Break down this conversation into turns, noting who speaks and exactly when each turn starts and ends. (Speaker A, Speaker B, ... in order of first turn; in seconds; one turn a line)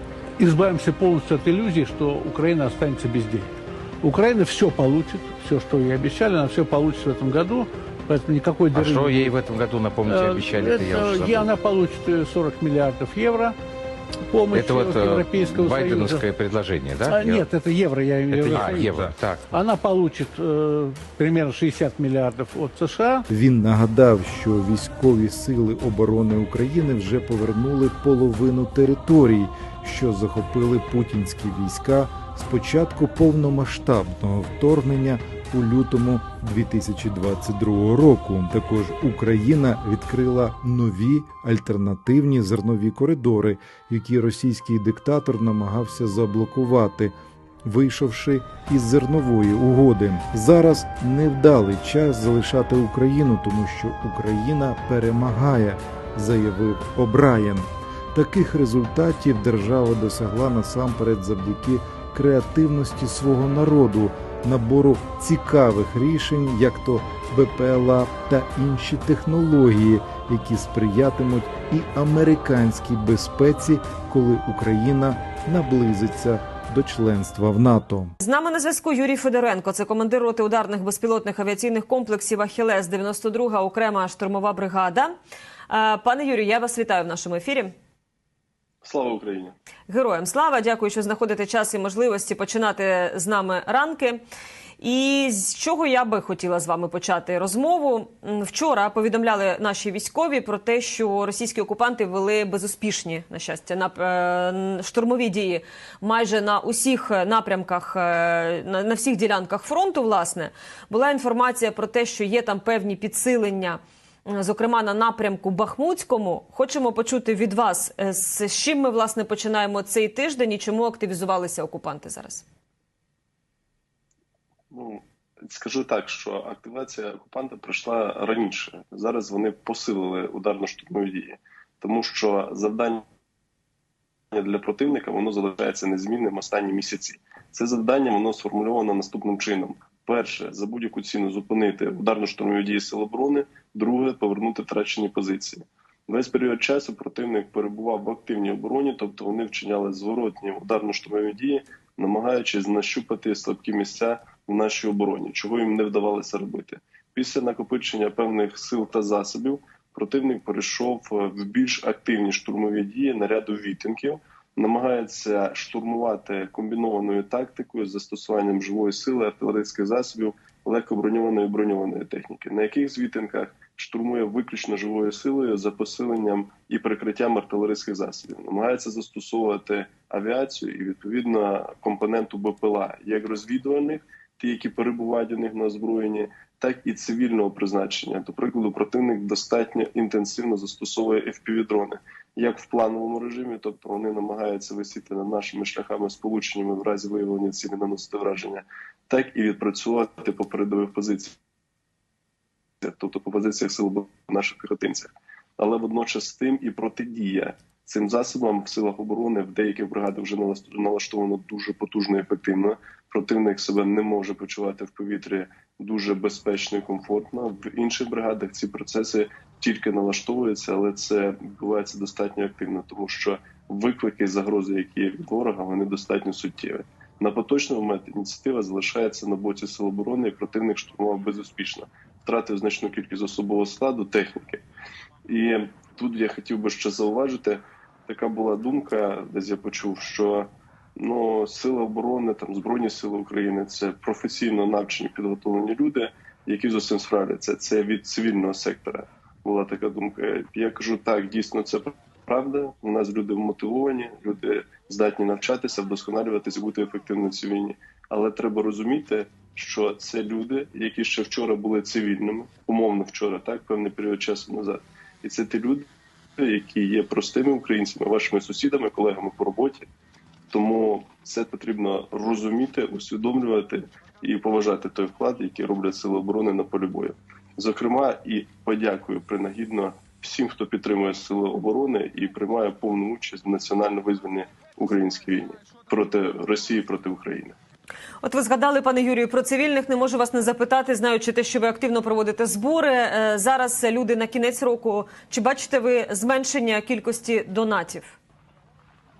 Speaker A: 0.4-9.3
Speaker B: 8.7-11.5
Speaker A: 10.0-13.6
Speaker A: 14.3-16.3
Speaker B: 14.5-17.5
Speaker A: 17.0-23.2
Speaker B: 18.3-19.5
Speaker C: 23.3-47.1
Speaker C: 47.6-78.1
Speaker D: 78.2-85.1
Speaker D: 85.7-87.7
Speaker E: 88.8-89.5
Speaker D: 89.9-94.2
Speaker D: 94.8-122.4
Speaker E: 124.7-133.0
Speaker E: 134.3-201.4
Speaker E: 202.8-234.6
Speaker E: 235.2-269.9
Speaker E: 270.5-287.6
Speaker D: 288.2-298.2